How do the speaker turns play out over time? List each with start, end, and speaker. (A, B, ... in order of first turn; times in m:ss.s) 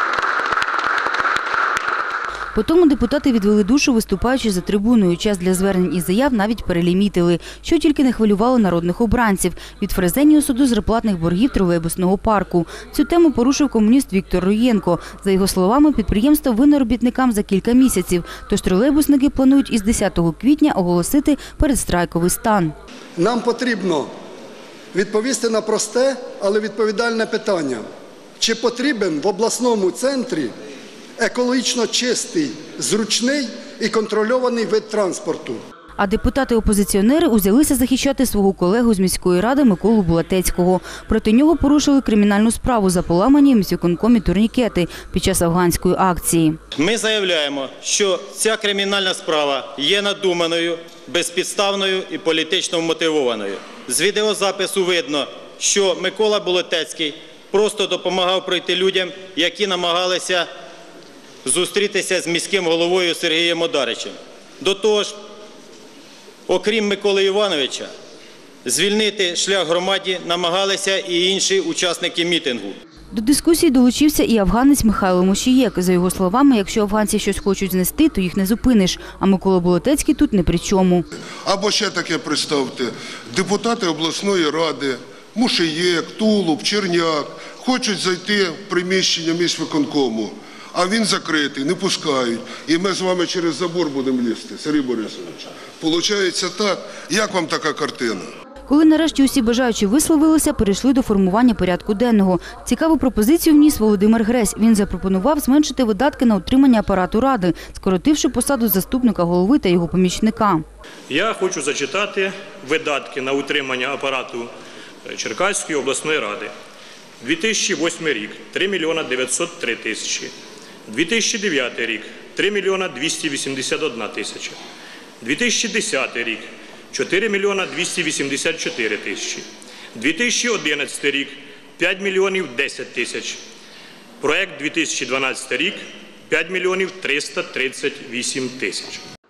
0:02.5-0:22.8 A
0:23.2-0:24.1 B
0:24.9-0:27.9 B
0:28.4-0:30.5 B
0:31.2-0:35.6 B
0:36.0-0:46.6 A
0:46.8-1:00.5 C
1:01.4-1:05.2 C
1:06.5-1:07.9 C
1:08.6-1:12.8 C
1:13.1-1:21.1 A
1:21.4-1:38.3 D
1:38.7-1:50.6 A
1:51.1-1:54.5 E
1:55.1-1:56.5 E
1:57.2-2:00.3 E
2:00.9-2:04.6 E
2:05.2-2:09.4 E
2:10.0-2:13.4 E
2:14.2-2:19.0 E